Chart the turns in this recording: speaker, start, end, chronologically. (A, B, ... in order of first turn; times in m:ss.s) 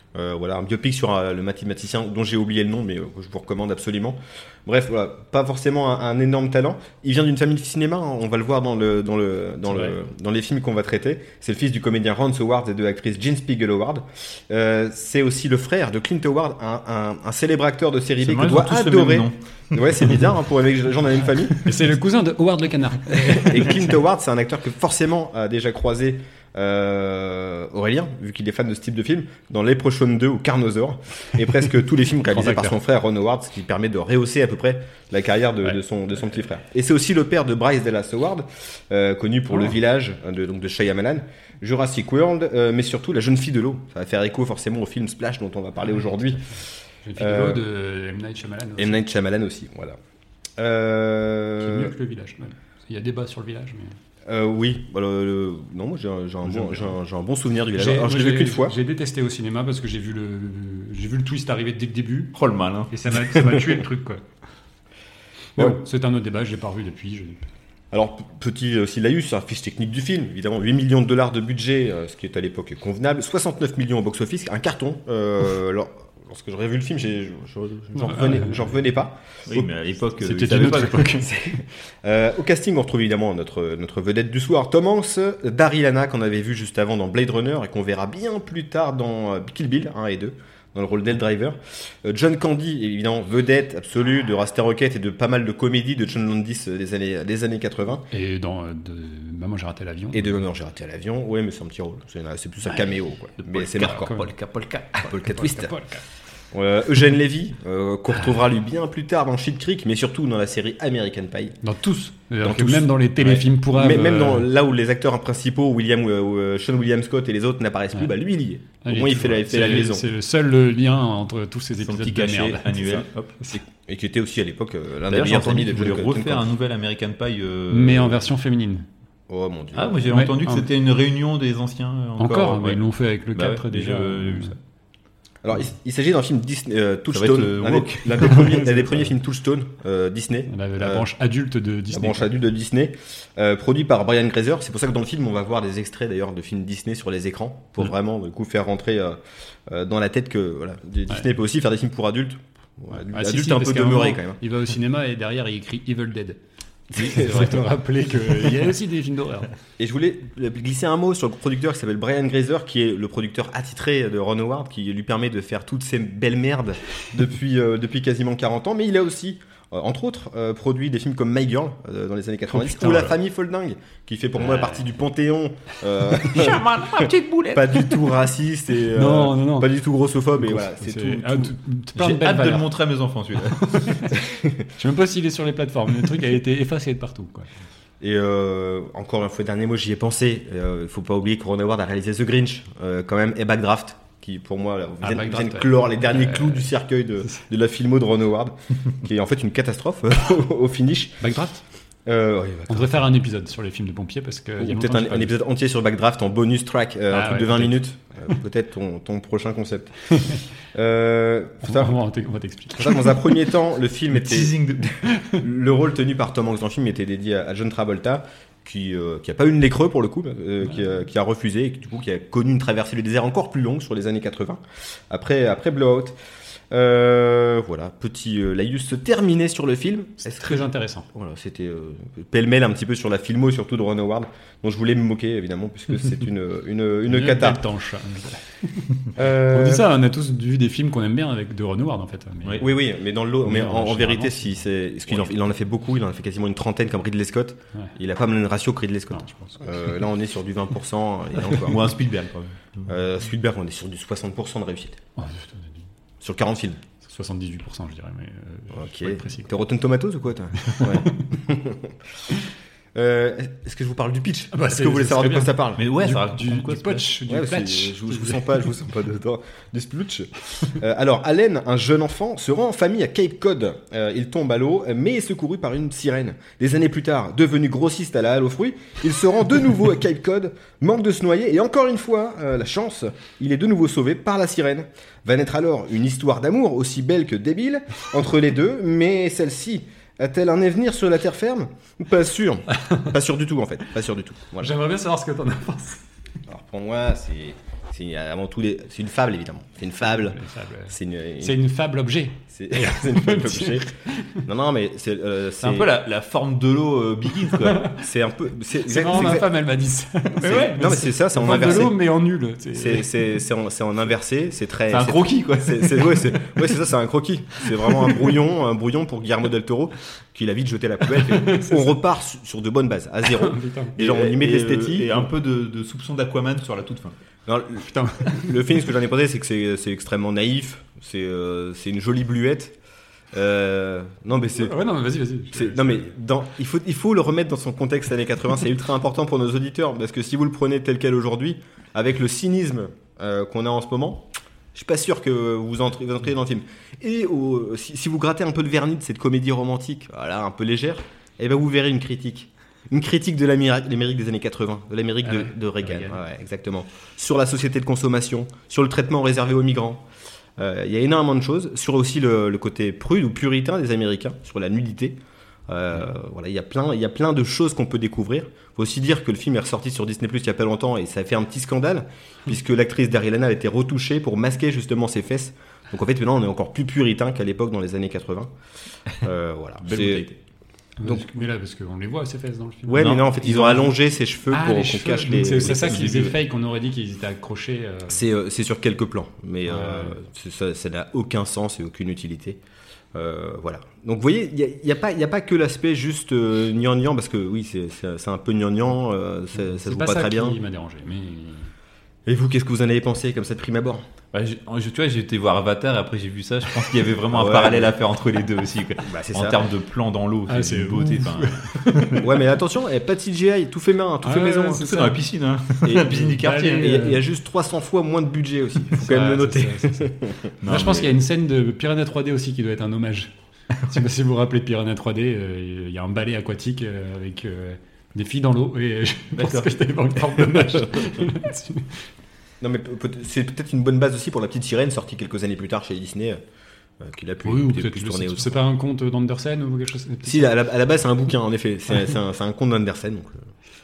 0:00.1-0:21.6 A
0:18.2-0:20.3 B
0:21.6-0:23.9 C
0:23.2-0:46.6 A
0:32.3-0:32.8 C
0:47.0-0:49.0 C
0:47.2-0:47.6 A
0:48.8-0:50.0 A
0:50.6-0:51.9 A
0:51.6-0:54.0 C
0:54.3-0:58.7 A
0:57.7-1:02.3 C
1:02.4-1:02.9 B
1:02.9-1:04.2 C
1:05.6-1:07.4 C
1:07.9-1:19.2 A
1:18.0-1:18.6 C
1:19.4-1:21.2 B
1:20.2-1:21.3 C
1:21.1-1:38.1 A
1:38.1-1:40.4 C
1:40.1-1:44.1 A
1:43.4-1:45.2 B
1:43.8-1:44.3 C
1:45.0-1:45.7 A
1:45.3-1:46.0 C
1:46.5-1:51.6 A
1:51.6-1:54.5 C
1:52.4-2:00.0 A
1:58.8-2:03.6 C
2:01.8-2:03.4 B
2:03.5-2:06.5 A
2:05.1-2:08.3 B
2:07.7-2:08.9 C
2:09.3-2:10.1 A
2:09.7-2:12.8 B
2:10.1-2:10.7 C
2:12.2-2:14.5 C
2:13.3-2:14.6 B
2:15.4-2:21.1 A
2:17.1-2:18.5 B
2:18.4-2:18.9 C
2:20.5-2:22.3 C
2:21.9-2:34.4 A
2:33.0-2:36.4 C
2:36.9-2:37.6 A
2:36.9-2:39.5 C
2:39.8-3:01.6 A
2:52.5-2:53.2 C
2:54.4-2:54.8 C
2:56.2-2:58.0 B
2:58.9-2:59.7 C
3:00.4-3:02.7 C
3:01.9-3:04.1 B
3:03.7-3:04.2 C
3:04.1-3:04.7 A
3:04.8-3:07.5 C
3:08.0-3:21.2 A
3:15.0-3:16.7 C
3:21.2-3:21.6 C
3:22.1-3:23.1 A
3:22.7-3:25.3 C
3:24.6-3:32.0 A
3:27.1-3:27.8 C
3:30.1-3:30.4 C
3:31.6-3:33.4 C
3:32.7-3:46.2 A
3:34.1-3:34.9 B
3:35.1-3:35.4 C
3:46.7-3:57.6 A
3:50.2-3:51.1 C
3:57.1-4:02.7 C
3:59.1-3:59.8 A
4:02.6-4:11.9 A
4:03.4-4:04.6 C
4:09.1-4:09.9 C
4:11.5-4:12.9 B
4:12.9-4:15.0 A
4:15.2-4:15.7 C
4:16.2-4:16.8 A
4:17.0-4:19.5 C
4:18.7-4:21.9 A
4:20.6-4:21.0 C
4:22.9-4:25.8 A
4:24.5-4:28.7 C
4:25.8-4:27.1 B
4:27.3-4:54.7 A
4:54.6-4:56.0 C
4:56.5-5:01.6 A
5:00.1-5:04.4 C
5:02.5-5:03.9 A
5:04.4-5:05.9 A
5:05.6-5:07.9 B
5:07.6-5:07.9 C
5:08.0-5:09.5 A
5:08.8-5:13.4 C
5:10.4-5:10.8 B
5:10.4-5:12.0 A
5:12.7-5:25.3 A
5:14.9-5:16.4 B
5:21.1-5:21.9 C
5:23.2-5:23.9 C
5:24.0-5:27.1 B
5:27.5-5:32.7 A
5:27.8-5:28.6 C
5:33.3-5:34.7 A
5:34.6-5:36.1 C
5:35.5-6:00.0 A
5:55.2-5:56.2 C
6:00.6-6:05.2 A
6:05.7-6:18.5 A
6:19.1-6:20.2 A
6:19.8-6:20.4 B
6:21.0-6:23.8 C
6:22.9-6:26.1 A
6:23.0-6:23.8 B
6:24.5-6:28.2 C
6:25.6-6:26.4 B
6:28.1-6:32.6 A
6:29.7-6:30.2 C
6:33.1-6:40.6 A
6:39.7-6:41.7 C
6:42.2-6:44.0 A
6:44.3-6:52.2 B
6:47.3-6:47.9 A
6:49.0-6:49.6 A
6:50.5-6:52.2 C
6:52.2-6:54.8 A
6:54.2-6:55.2 C
6:54.7-6:57.0 B
6:55.8-7:00.5 A
6:56.0-6:57.2 C
6:58.9-7:03.3 C
7:00.6-7:01.1 B
7:03.7-7:04.0 B
7:03.9-7:12.0 C
7:09.4-7:09.7 B
7:12.6-7:16.4 A
7:17.0-7:18.6 A
7:17.4-7:20.6 C
7:20.2-7:23.4 A